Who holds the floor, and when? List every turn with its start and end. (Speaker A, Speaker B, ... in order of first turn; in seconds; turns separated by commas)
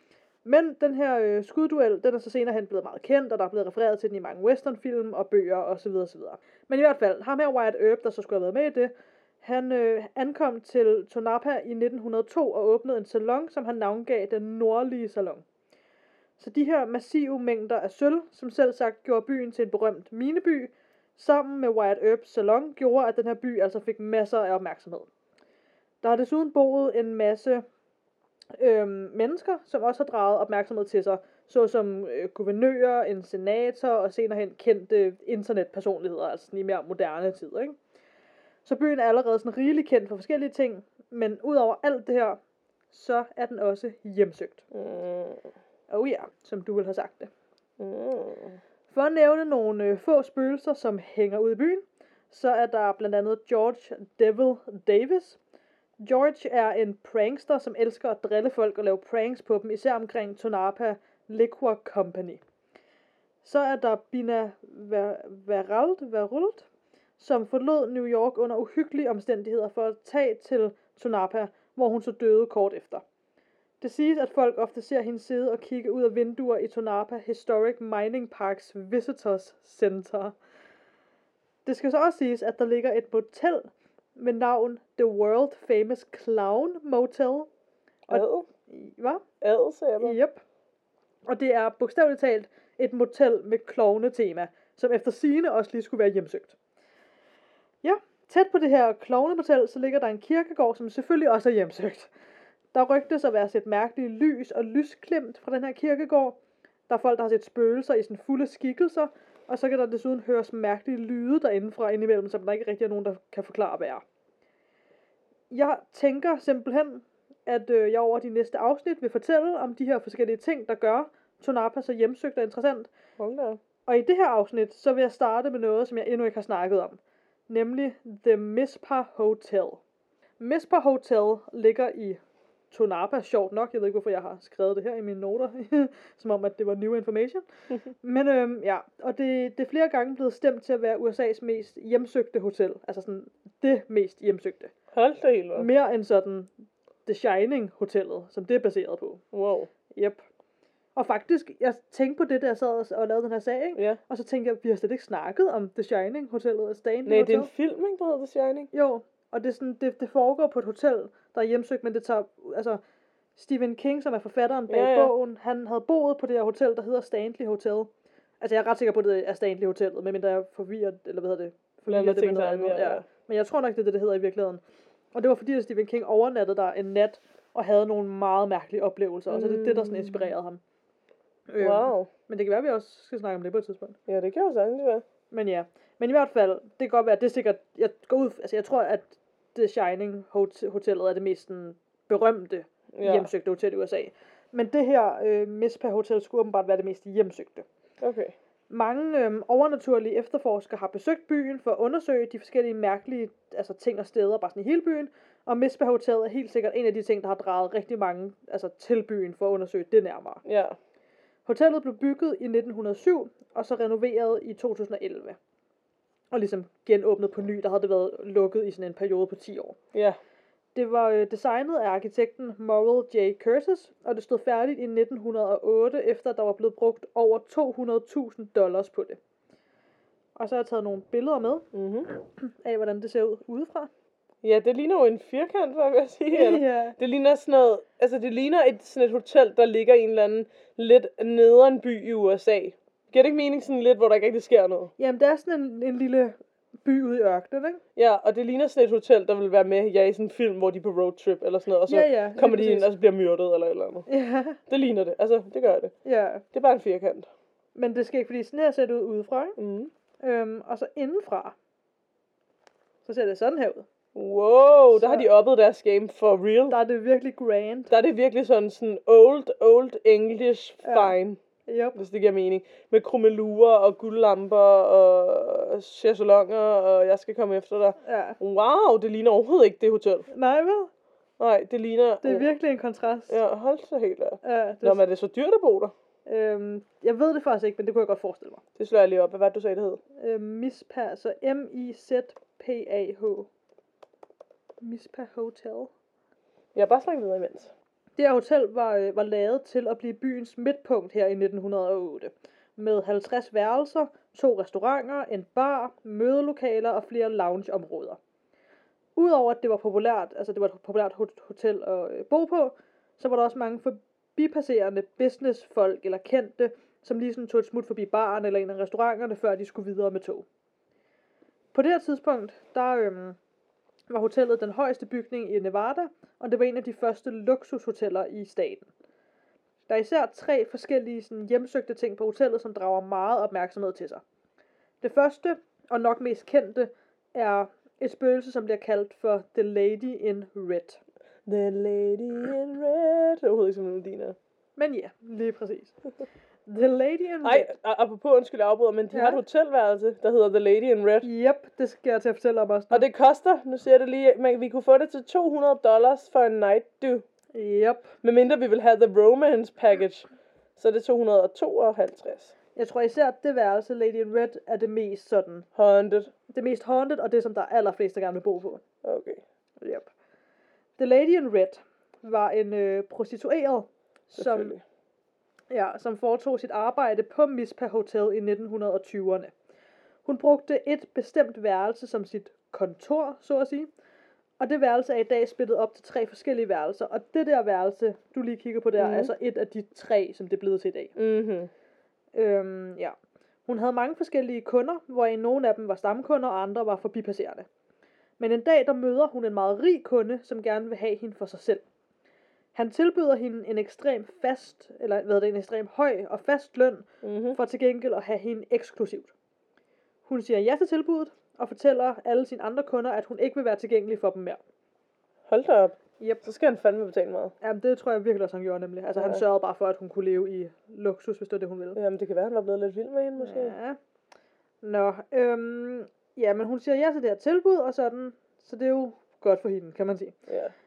Speaker A: 0.5-15.4, Speaker A: 16.4-25.1, Speaker A: 26.0-27.6, Speaker A: 28.6-37.8, Speaker A: 38.6-42.4, Speaker A: 42.9-44.6, Speaker B: 44.7-45.5, Speaker A: 45.9-47.3, Speaker B: 47.8-48.6, Speaker A: 48.9-55.4, Speaker A: 56.0-62.4, Speaker A: 63.4-66.7, Speaker A: 67.2-73.0, Speaker A: 73.8-80.4, Speaker A: 81.7-87.5, Speaker A: 88.1-89.2, Speaker B: 88.1-88.5, Speaker B: 89.4-90.2, Speaker A: 90.0-90.4, Speaker A: 91.3-96.5, Speaker A: 97.8-102.1, Speaker A: 102.7-114.0, Speaker A: 115.5-122.9, Speaker B: 123.2-123.6, Speaker A: 123.9-129.8, Speaker A: 130.4-137.4, Speaker A: 138.0-144.7, Speaker B: 144.9-145.7, Speaker A: 145.6-146.5, Speaker A: 147.1-149.2, Speaker B: 149.3-149.7, Speaker A: 149.9-150.2, Speaker A: 150.9-157.5, Speaker B: 157.1-158.7, Speaker A: 158.7-162.8, Speaker A: 163.4-174.6, Speaker B: 164.7-165.1, Speaker B: 171.9-173.1, Speaker A: 175.1-180.6, Speaker B: 179.3-180.3, Speaker A: 181.5-184.0, Speaker B: 181.6-182.1, Speaker B: 184.1-185.1, Speaker A: 185.3-197.7, Speaker B: 192.9-193.3, Speaker B: 198.0-198.3, Speaker A: 198.7-210.4, Speaker B: 210.4-210.8, Speaker A: 211.5-215.4, Speaker A: 216.3-219.8, Speaker B: 219.9-220.2, Speaker A: 220.8-229.2, Speaker A: 230.4-233.9, Speaker B: 231.7-232.1, Speaker B: 234.4-244.9, Speaker A: 236.3-236.9, Speaker A: 245.0-247.8, Speaker B: 248.0-254.1, Speaker A: 251.9-252.9, Speaker A: 254.1-254.6, Speaker B: 254.7-255.9, Speaker A: 256.1-256.4, Speaker B: 256.5-257.3, Speaker A: 257.8-259.6, Speaker B: 259.6-259.9, Speaker A: 260.2-261.6, Speaker A: 263.1-263.9, Speaker B: 264.1-266.8, Speaker A: 264.9-265.3, Speaker A: 266.7-267.9, Speaker B: 267.9-271.4, Speaker A: 270.8-272.0, Speaker B: 271.9-280.3, Speaker A: 278.0-278.4, Speaker A: 280.3-280.9, Speaker B: 281.4-282.5, Speaker A: 282.2-283.4, Speaker B: 283.3-285.9, Speaker A: 284.4-285.0, Speaker A: 286.3-288.6, Speaker B: 288.8-290.0, Speaker A: 290.2-293.5, Speaker A: 294.8-295.9, Speaker B: 296.8-297.7, Speaker A: 298.2-308.2, Speaker A: 309.2-320.5, Speaker A: 321.7-323.4, Speaker A: 324.1-328.9, Speaker A: 329.9-334.2, Speaker A: 335.0-341.0, Speaker B: 341.5-344.4, Speaker A: 344.8-346.0, Speaker A: 346.7-347.7, Speaker B: 347.4-351.3, Speaker A: 349.1-349.4, Speaker A: 351.2-353.1, Speaker B: 352.9-357.2, Speaker A: 357.5-358.1, Speaker B: 358.2-362.5, Speaker A: 362.8-365.7, Speaker B: 365.8-366.3, Speaker A: 366.5-368.8, Speaker B: 369.0-369.4, Speaker A: 369.8-370.1, Speaker A: 371.0-374.8, Speaker B: 374.4-374.8, Speaker A: 375.7-379.5, Speaker A: 380.2-383.9, Speaker A: 384.6-391.2, Speaker B: 389.0-389.3, Speaker B: 391.2-391.7, Speaker A: 392.4-397.7, Speaker A: 398.4-401.8, Speaker A: 402.8-409.3, Speaker B: 407.2-407.6, Speaker A: 410.3-414.6, Speaker B: 415.5-417.5, Speaker A: 417.6-422.0, Speaker B: 421.9-423.8, Speaker A: 423.4-424.0, Speaker A: 424.8-430.4, Speaker B: 430.5-430.7